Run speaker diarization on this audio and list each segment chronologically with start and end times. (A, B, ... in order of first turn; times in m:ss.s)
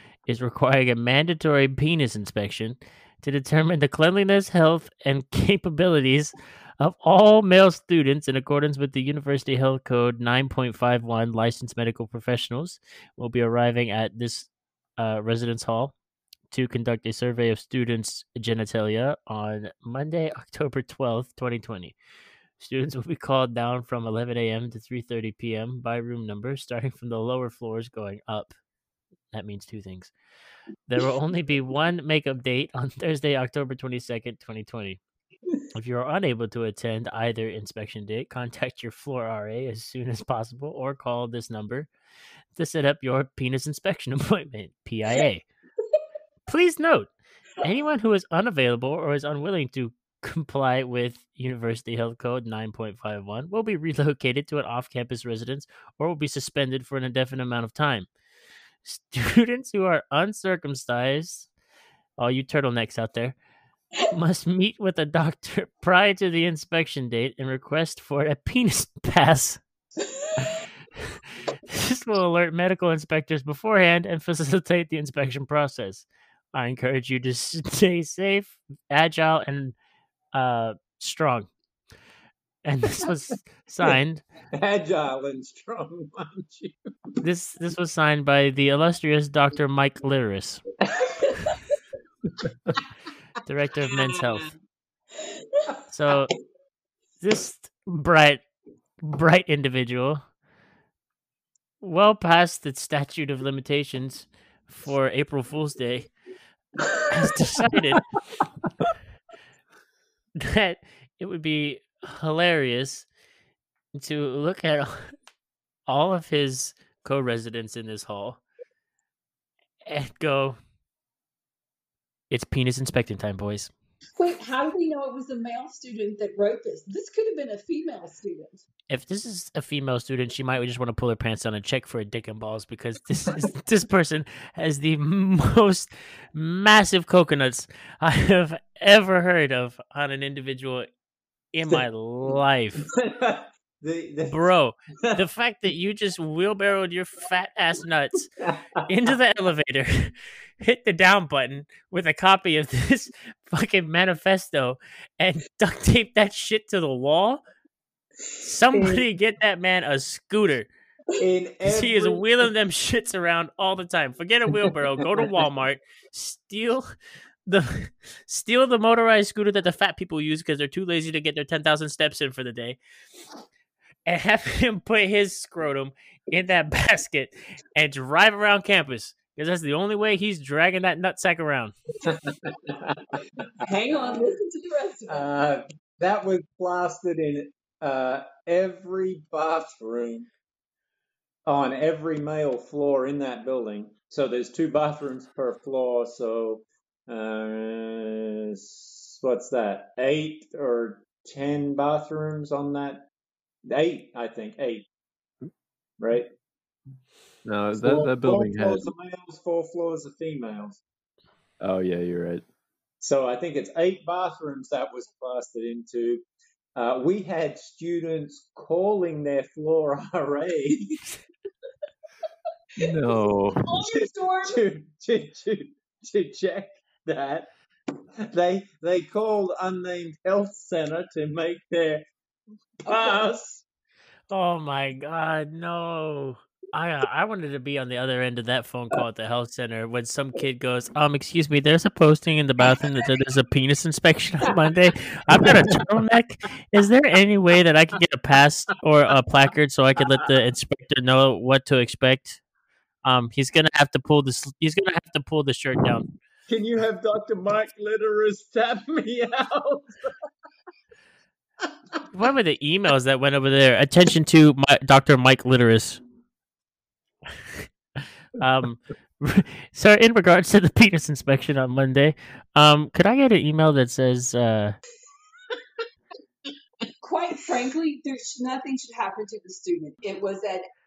0:00.3-0:15.9 A
0:16.5-0:21.9 A
0:22.6-0:28.5 A
0:29.3-0:30.1 A
0:30.9-0:35.0 A
0:35.7-0:41.9 A
0:42.6-0:45.4 A
0:46.4-0:58.1 A
0:58.8-1:01.5 A
1:02.2-1:03.4 A
1:04.1-1:09.6 A
1:10.5-1:19.7 A
1:20.3-1:21.5 A
1:22.6-1:24.2 A
1:24.5-1:26.7 B
1:27.2-1:30.6 A
1:33.4-1:34.5 A
1:35.9-1:36.3 A
1:37.2-1:38.4 A
1:39.0-1:40.2 A
1:41.8-1:46.1 A
1:47.1-1:48.0 A
1:50.4-1:53.1 A
1:53.9-1:55.1 A
1:55.9-1:58.4 A
1:59.8-2:00.6 A
2:02.3-2:03.7 A
2:04.2-2:08.6 C
2:08.9-2:20.9 A
2:21.5-2:22.9 A
2:22.8-2:24.5 B
2:24.3-2:37.4 A
2:28.4-2:28.8 B
2:38.4-2:40.7 A
2:41.2-2:42.2 B
2:41.6-2:46.9 A
2:47.4-2:52.8 A
2:54.1-3:01.7 A
3:02.1-3:03.4 B
3:03.6-3:05.3 C
3:04.0-3:04.3 B
3:05.1-3:10.3 B
3:11.4-3:23.1 B
3:23.6-3:24.9 B
3:26.0-3:26.3 B
3:27.4-3:28.9 D
3:27.8-3:30.8 B
3:31.6-3:32.4 D
3:33.0-3:36.2 B
3:36.8-3:41.0 B
3:42.8-3:43.7 D
3:43.5-3:44.6 C
3:43.8-3:47.5 B
3:48.3-3:52.0 B
3:52.8-3:53.6 B
3:54.3-4:12.4 A
4:13.0-4:16.1 A
4:16.5-4:20.2 B
4:22.1-4:26.0 A
4:27.3-4:34.8 A
4:37.0-4:40.6 C